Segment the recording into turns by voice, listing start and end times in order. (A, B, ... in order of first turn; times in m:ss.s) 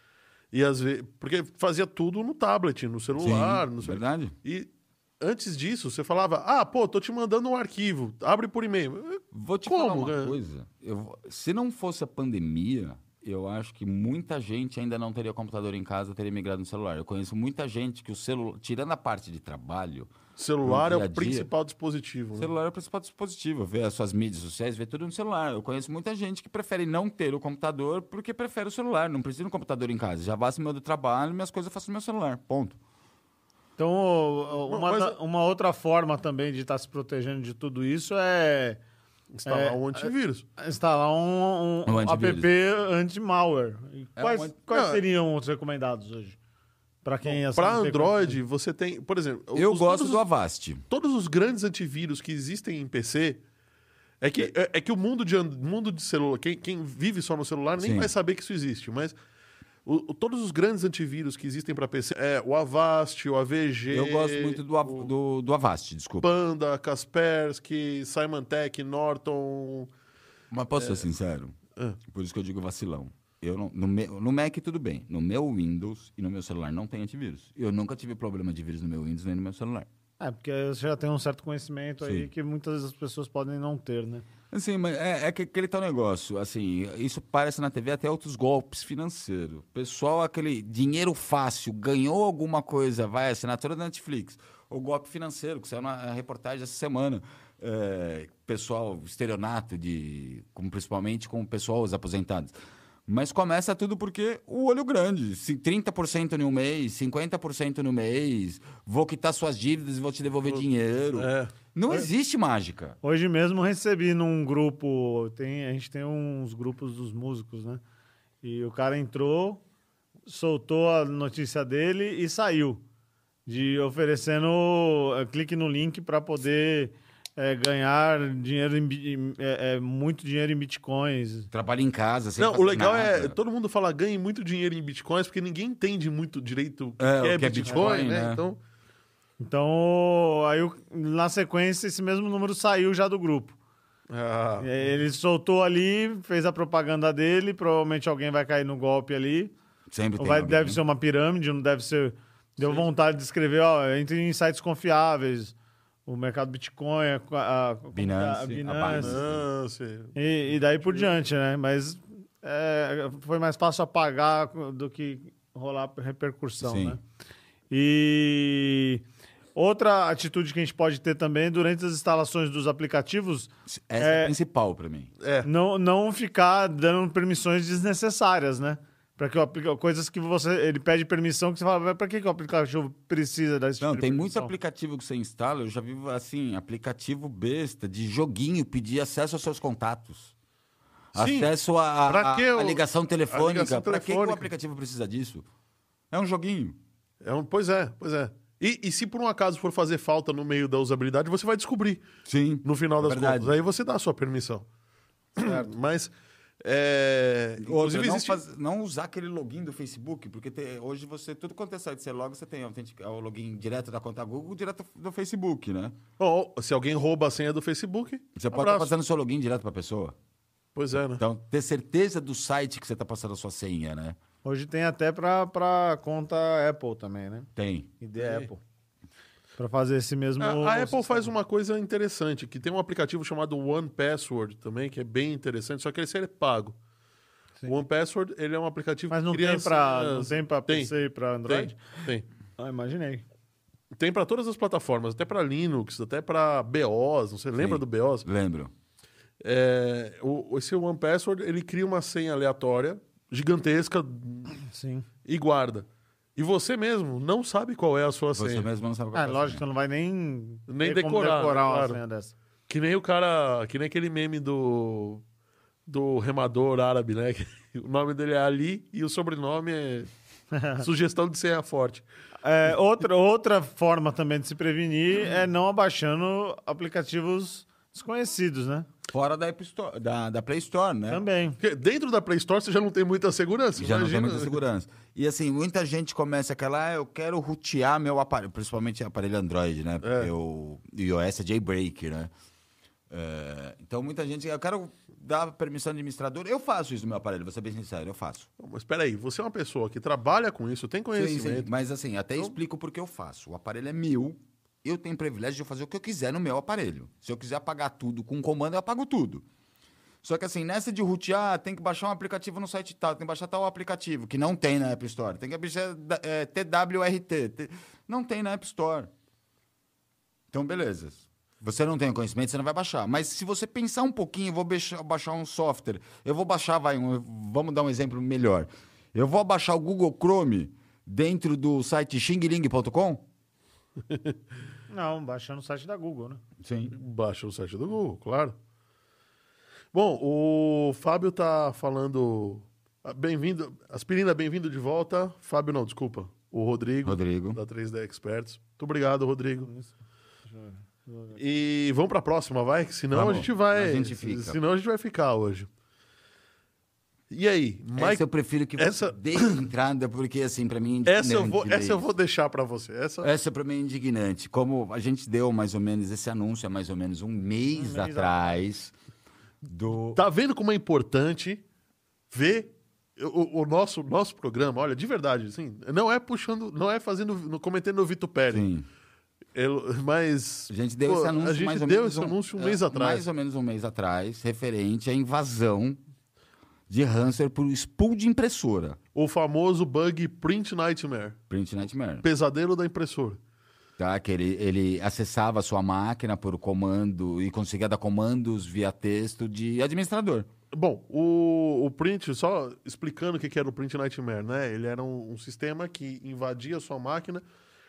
0:00.5-0:10.4 A
0:03.2-0:04.3 B
0:09.3-0:20.1 B
0:20.4-0:22.5 A
0:20.6-0:21.5 B
0:22.4-0:32.8 B
0:33.8-0:38.8 C
0:34.7-0:35.2 A
0:39.3-0:40.5 A
0:39.5-0:46.4 C
0:41.9-0:42.5 B
0:44.2-0:44.6 B
0:44.7-0:45.0 A
0:47.0-0:48.4 C
0:47.2-0:50.2 A
0:49.6-0:50.8 B
0:50.9-0:53.4 A
0:54.2-0:59.2 A
0:57.8-0:58.1 B
0:59.9-1:05.1 A
1:03.9-1:06.3 B
1:06.2-1:09.9 A
1:10.5-1:11.6 B
1:10.8-1:11.0 A
1:12.1-1:19.9 B
1:20.2-1:24.3 C
1:22.0-1:22.3 B
1:24.5-1:42.6 B
1:43.1-1:53.0 B
1:51.2-1:51.5 A
1:53.0-1:57.8 C
1:58.4-1:59.6 C
2:00.3-2:02.8 C
2:03.5-2:11.5 C
2:11.5-2:13.4 B
2:12.4-2:18.6 A
2:17.0-2:18.4 B
2:19.4-2:23.6 C
2:24.1-2:24.7 A
2:24.6-2:29.5 C
2:29.9-2:30.8 B
2:30.2-2:35.5 C
2:32.6-2:32.8 A
2:36.1-2:39.2 C
2:37.9-2:39.5 B
2:38.9-2:41.1 A
2:40.2-2:47.0 C
2:46.6-2:47.0 B
2:47.7-2:49.0 C
2:49.6-2:54.3 C
2:53.7-2:55.1 B
2:55.2-2:55.5 A
2:55.4-3:04.5 C
3:03.8-3:10.3 B
3:11.1-3:15.5 B
3:11.1-3:11.5 A
3:12.1-3:14.5 A
3:16.1-3:16.8 B
3:17.2-3:22.0 A
3:22.3-3:23.6 B
3:22.6-3:24.7 A
3:25.4-3:28.4 A
3:27.6-3:36.0 B
3:36.2-3:38.9 A
3:38.4-3:40.2 B
3:40.8-3:41.2 A
3:41.2-3:44.2 B
3:44.4-3:47.5 C
3:47.6-3:48.0 B
3:48.0-3:48.6 C
3:48.2-3:48.5 A
3:49.6-3:51.3 C
3:50.4-3:56.8 A
3:57.6-4:00.9 A
3:59.1-4:01.8 C
4:01.5-4:02.2 A
4:02.6-4:03.2 C
4:03.9-4:08.3 A
4:07.6-4:08.7 B
4:09.4-4:14.6 A
4:14.7-4:15.1 C
4:15.2-4:18.7 A
4:18.4-4:19.6 B
4:19.2-4:22.4 C
4:20.7-4:22.0 A
4:22.7-4:25.2 A
4:25.9-4:30.1 A
4:30.5-4:30.8 C
4:30.8-4:32.0 A
4:32.4-4:38.9 C
4:39.1-4:41.2 B
4:41.1-4:41.6 C
4:41.6-4:44.6 A
4:43.8-4:52.3 B
4:50.0-4:50.3 A
4:53.1-4:58.5 B
4:58.6-5:01.7 A
5:01.2-5:09.4 B
5:10.2-5:19.1 B
5:20.5-5:33.2 B
5:34.1-5:34.4 A
5:34.9-5:36.4 C
5:36.6-5:36.9 B
5:36.9-5:38.6 A
5:39.9-5:49.7 A
5:47.0-5:47.6 B
5:49.6-5:49.9 C
5:50.5-5:51.4 C
5:51.4-5:55.7 A
5:53.1-5:54.6 B
5:57.3-5:58.2 A
5:58.0-6:02.0 B
5:58.8-5:59.6 A
6:01.1-6:03.3 A
6:03.2-6:08.9 B
6:07.8-6:08.6 C
6:09.6-6:10.2 B
6:10.2-6:11.6 A
6:12.3-6:18.7 A
6:18.5-6:18.9 B
6:19.6-6:23.2 A
6:20.7-6:26.0 B
6:26.9-6:29.0 B
6:29.2-6:31.4 A
6:31.5-6:32.2 B
6:32.2-6:33.4 A
6:34.0-6:40.5 B
6:40.7-6:47.4 A